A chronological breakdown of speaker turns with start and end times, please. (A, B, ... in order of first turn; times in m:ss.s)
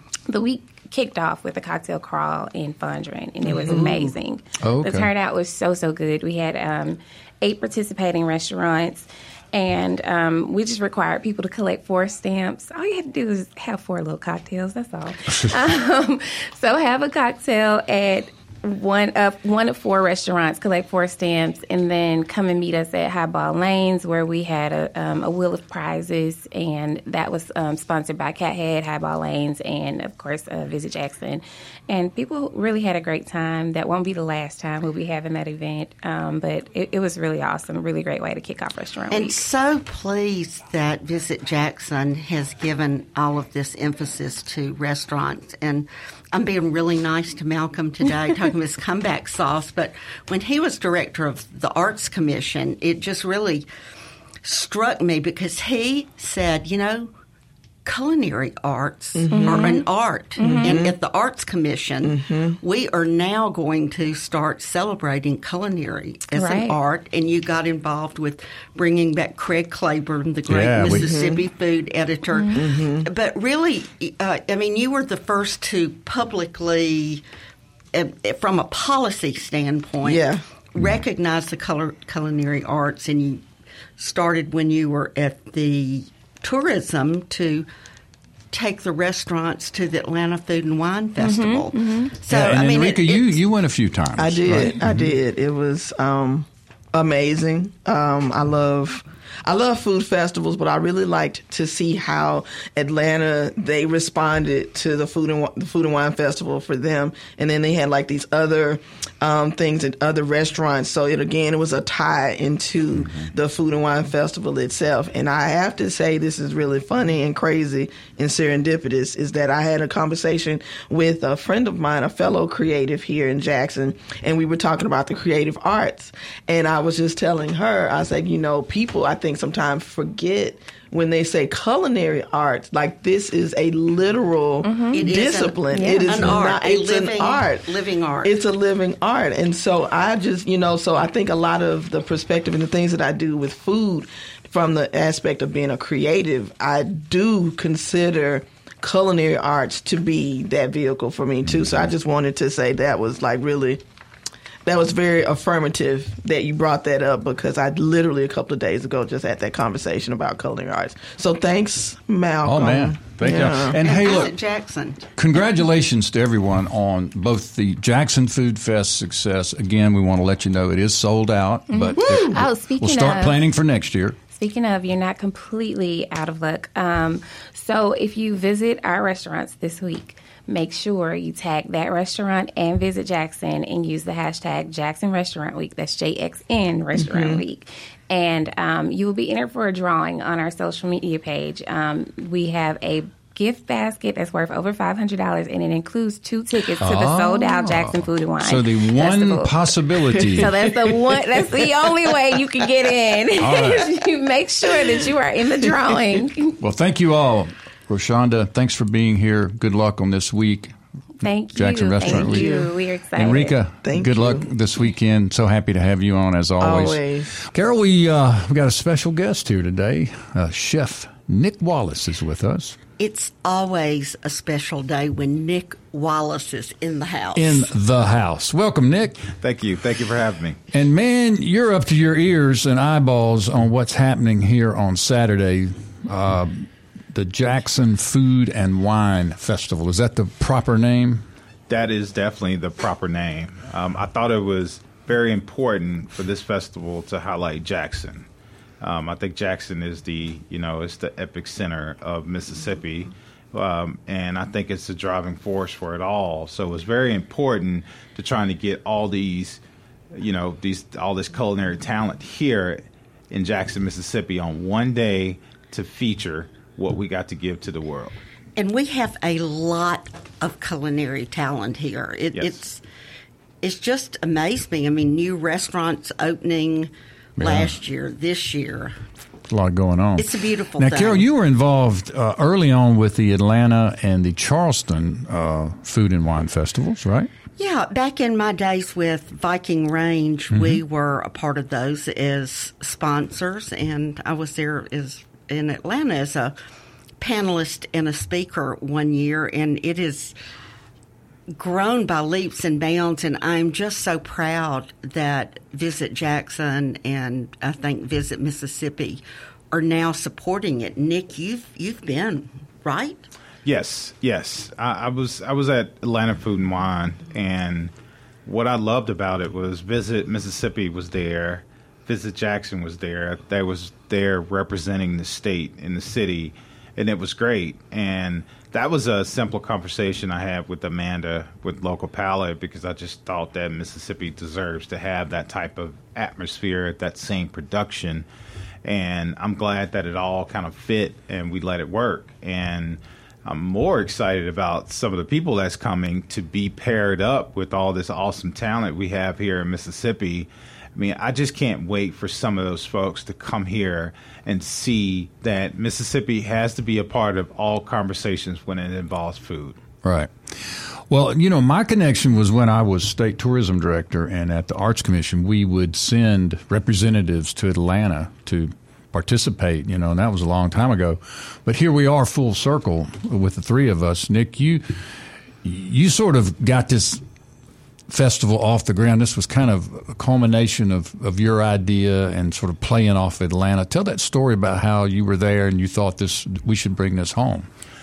0:00.3-0:39.4 A
0:03.4-0:04.1 B
0:03.7-0:04.0 C
0:04.6-0:05.1 C
0:39.1-0:53.6 D
0:54.4-0:57.1 D
0:57.8-1:17.2 D
0:59.2-0:59.8 B
0:59.3-0:59.8 A
1:00.4-1:00.8 A
1:00.4-1:01.0 B
1:02.0-1:02.6 B
1:06.3-1:06.8 A
1:10.5-1:11.2 C
1:10.9-1:11.5 B
1:12.3-1:12.6 A
1:12.6-1:13.1 B
1:17.9-1:23.4 D
1:20.0-1:20.4 B
1:24.0-1:27.6 D
1:28.5-1:33.4 D
1:31.2-1:32.2 A
1:32.3-1:35.1 C
1:34.2-2:33.8 B
2:14.6-2:15.1 A
2:14.9-2:18.3 D
2:15.7-2:16.3 A
2:34.6-2:43.8 B
2:42.4-2:44.3 C
2:43.8-2:45.1 D
2:45.2-2:54.2 C
2:51.7-2:53.4 A
2:52.0-2:52.4 B
2:54.3-3:26.6 A
3:07.0-3:07.4 B
3:16.8-3:20.5 C
3:20.4-3:20.8 B
3:23.4-3:23.9 C
3:26.6-3:32.6 C
3:31.2-3:33.6 A
3:32.0-3:32.7 B
3:33.1-3:42.8 C
3:33.8-3:34.4 B
3:36.6-3:37.3 B
3:43.0-3:47.6 D
3:47.3-3:49.2 C
3:49.3-3:50.6 E
3:50.7-4:01.3 C
4:01.7-4:08.2 E
4:08.8-4:19.6 E
4:20.1-4:28.2 E
4:28.6-4:32.8 D
4:33.6-4:38.9 D
4:37.4-4:37.7 C
4:39.5-4:47.3 C
4:40.2-4:41.2 D
4:47.6-4:56.5 D
4:50.5-4:50.8 C
4:57.2-5:00.3 D
5:01.5-5:13.3 D
5:13.6-5:17.9 E
5:18.4-5:38.3 E
5:38.8-5:59.8 E
6:00.0-6:17.2 C
6:18.1-6:27.7 C